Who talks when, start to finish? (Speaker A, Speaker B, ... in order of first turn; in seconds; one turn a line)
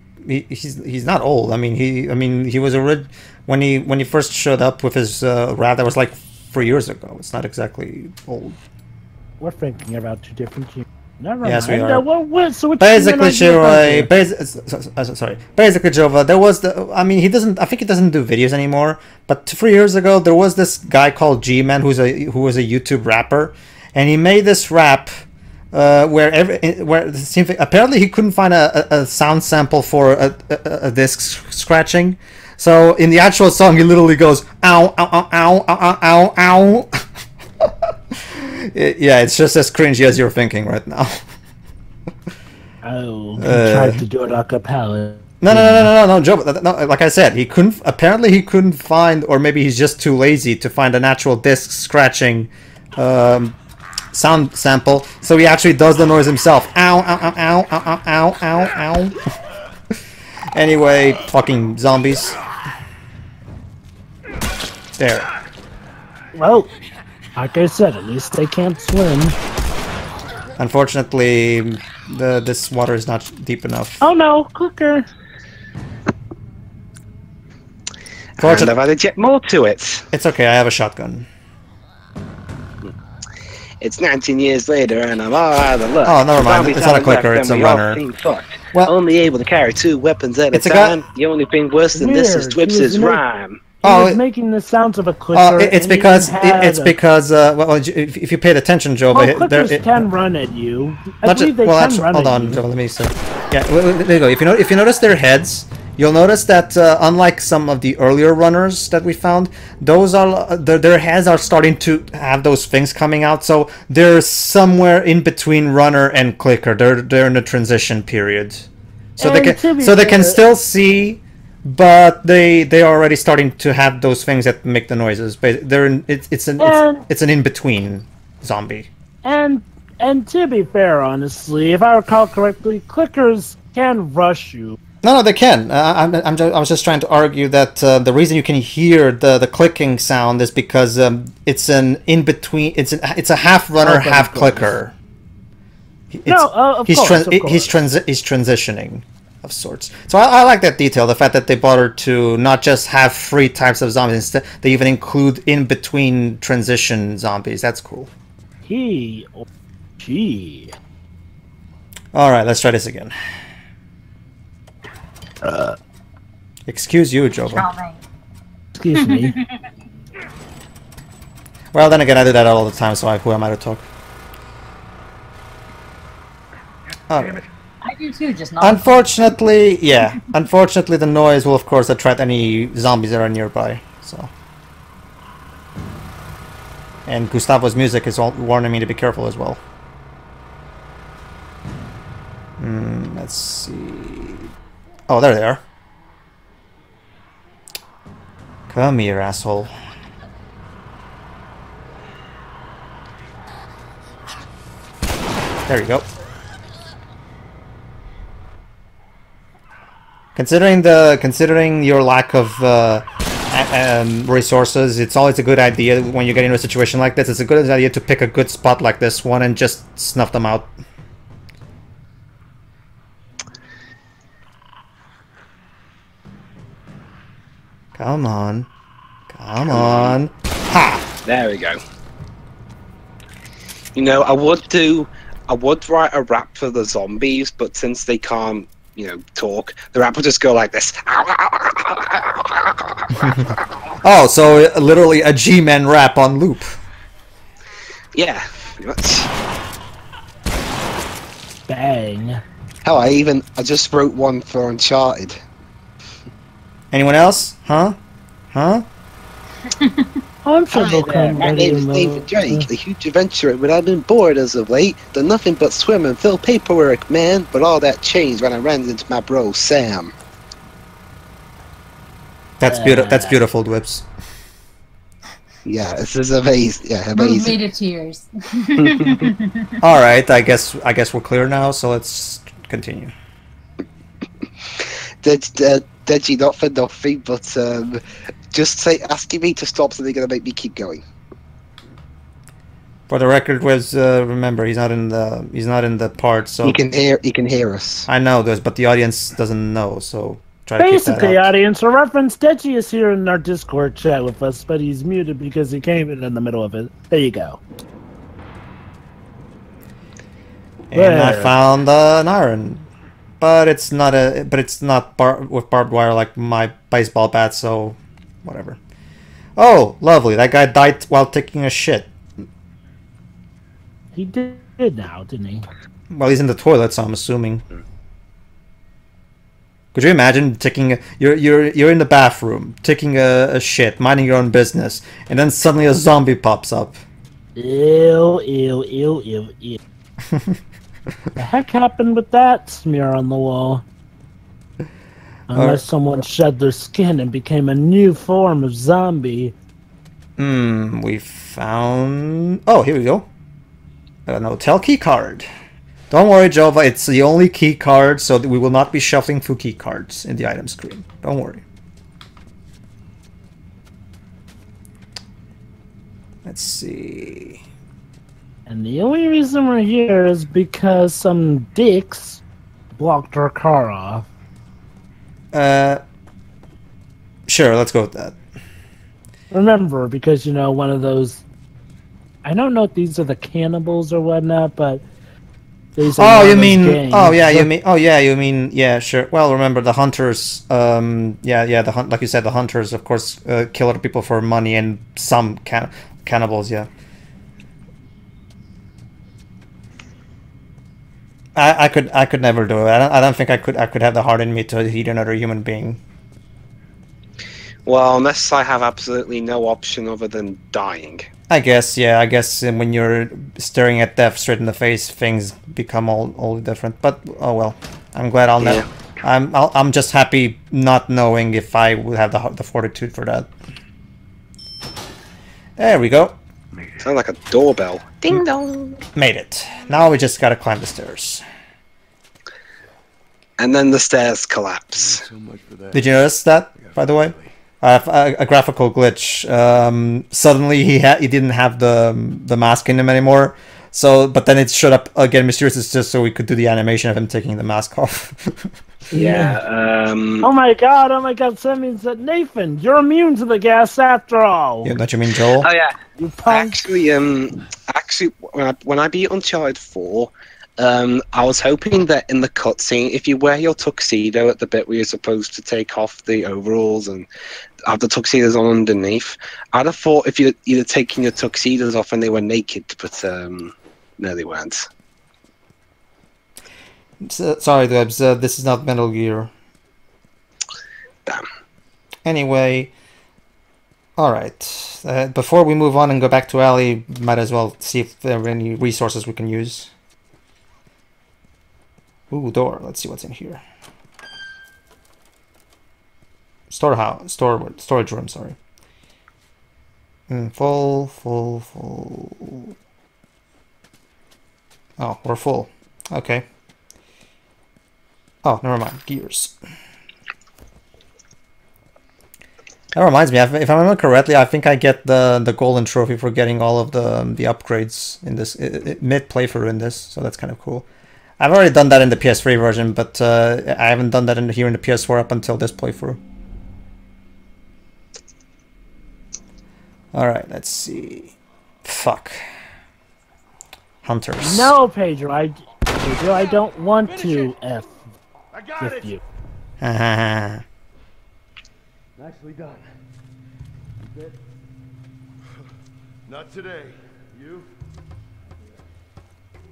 Speaker A: 0.2-8.6
Speaker B: 9.4-14.1
Speaker A: 11.4-12.1
Speaker A: 12.8-25.2
Speaker A: 25.7-37.0
Speaker A: 37.6-41.2
Speaker B: 42.8-45.9
Speaker A: 43.4-44.0
Speaker A: 45.4-53.6
Speaker A: 54.1-59.2
Speaker A: 60.5-62.4
Speaker A: 65.0-65.3
Speaker B: 66.3-66.7
Speaker B: 67.4-69.4
Speaker A: 70.6-74.0
Speaker B: 74.0-75.1
Speaker C: 78.4-80.0
Speaker A: 78.4-78.7
Speaker A: 80.1-81.3
Speaker C: 83.8-93.7
Speaker A: 86.0-88.0
Speaker A: 90.5-91.0
Speaker B: 91.9-93.2
Speaker B: 93.8-96.9
Speaker A: 93.8-94.2
Speaker A: 95.3-100.1
Speaker B: 99.1-102.6
Speaker A: 101.2-118.7
Speaker B: 119.2-120.4
Speaker A: 119.2-128.9
Speaker B: 126.6-127.1
Speaker B: 129.2-134.8
Speaker A: 135.0-144.9
Speaker B: 143.8-144.7
Speaker A: 146.1-158.1
Speaker B: 146.3-147.7
Speaker B: 158.7-159.5
Speaker B: 160.0-160.8
Speaker A: 162.1-163.1
Speaker B: 165.4-165.8
Speaker A: 166.7-167.7
Speaker D: 167.5-168.0
Speaker B: 168.8-169.4
Speaker D: 169.0-169.4
Speaker A: 171.7-173.8
Speaker A: 177.1-177.4
Speaker D: 177.8-178.9
Speaker A: 178.6-184.3
Speaker A: 187.1-189.6
Speaker A: 192.6-194.5
Speaker A: 195.1-195.6
Speaker A: 198.7-199.7
Speaker A: 205.7-206.1
Speaker A: 210.3-220.7
Speaker A: 227.9-228.7
Speaker A: 229.3-231.1
Speaker C: 229.7-230.1
Speaker C: 231.2-231.8
Speaker C: 233.9-243.5
Speaker A: 243.2-243.5
Speaker A: 244.0-246.8
Speaker C: 248.2-249.3
Speaker B: 251.7-252.4
Speaker C: 252.8-255.4
Speaker A: 256.9-258.0
Speaker A: 258.5-258.9
Speaker D: 259.7-260.1
Speaker B: 260.4-262.7
Speaker C: 260.7-270.1
Speaker A: 272.6-274.1
Speaker B: 272.6-273.4
Speaker C: 275.7-277.6
Speaker D: 277.1-279.8
Speaker C: 278.9-279.3
Speaker A: 279.8-283.1
Speaker C: 284.8-291.0
Speaker A: 293.1-296.8
Speaker C: 296.6-298.1
Speaker A: 298.1-301.5
Speaker B: 300.8-307.6
Speaker A: 310.9-312.9
Speaker B: 310.9-311.6
Speaker A: 313.4-318.8
Speaker A: 319.6-322.1
Speaker B: 324.1-325.7
Speaker A: 326.1-327.6
Speaker A: 329.9-337.0
Speaker B: 337.6-339.8
Speaker A: 340.3-340.6
Speaker B: 341.4-343.9
Speaker B: 345.5-349.5
Speaker A: 345.5-345.8
Speaker A: 350.4-353.3
Speaker A: 354.3-355.5
Speaker A: 356.1-361.6
Speaker A: 366.4-367.6
Speaker B: 368.7-372.4
Speaker B: 373.0-374.3
Speaker A: 375.5-376.0
Speaker A: 377.5-378.4
Speaker B: 379.5-381.4
Speaker B: 382.4-385.0
Speaker B: 386.0-387.7
Speaker A: 386.1-396.9
Speaker A: 401.6-406.0
Speaker C: 407.9-411.3
Speaker A: 411.5-423.5
Speaker C: 418.6-418.9
Speaker A: 425.8-426.4
Speaker C: 427.0-429.0
Speaker A: 429.2-431.4
Speaker C: 433.6-435.2
Speaker E: 435.0-436.2
Speaker A: 435.9-448.7
Speaker E: 436.8-437.6
Speaker B: 449.1-449.6
Speaker C: 449.1-450.5
Speaker B: 450.4-454.9
Speaker A: 454.8-455.7
Speaker C: 455.6-467.3
Speaker B: 456.2-456.8
Speaker C: 467.9-474.9
Speaker A: 477.2-479.5
Speaker A: 482.2-482.9
Speaker A: 484.2-489.9
Speaker A: 492.3-493.6
Speaker A: 496.7-498.6
Speaker A: 500.3-502.7
Speaker A: 505.0-506.4
Speaker A: 508.4-509.6
Speaker A: 512.9-520.9
Speaker A: 521.4-526.2
Speaker A: 530.1-532.4
Speaker A: 534.0-534.8
Speaker B: 534.4-538.1
Speaker E: 538.5-539.1
Speaker B: 538.8-539.2
Speaker A: 539.8-540.6
Speaker E: 542.2-542.9
Speaker E: 544.0-544.4
Speaker E: 546.3-547.7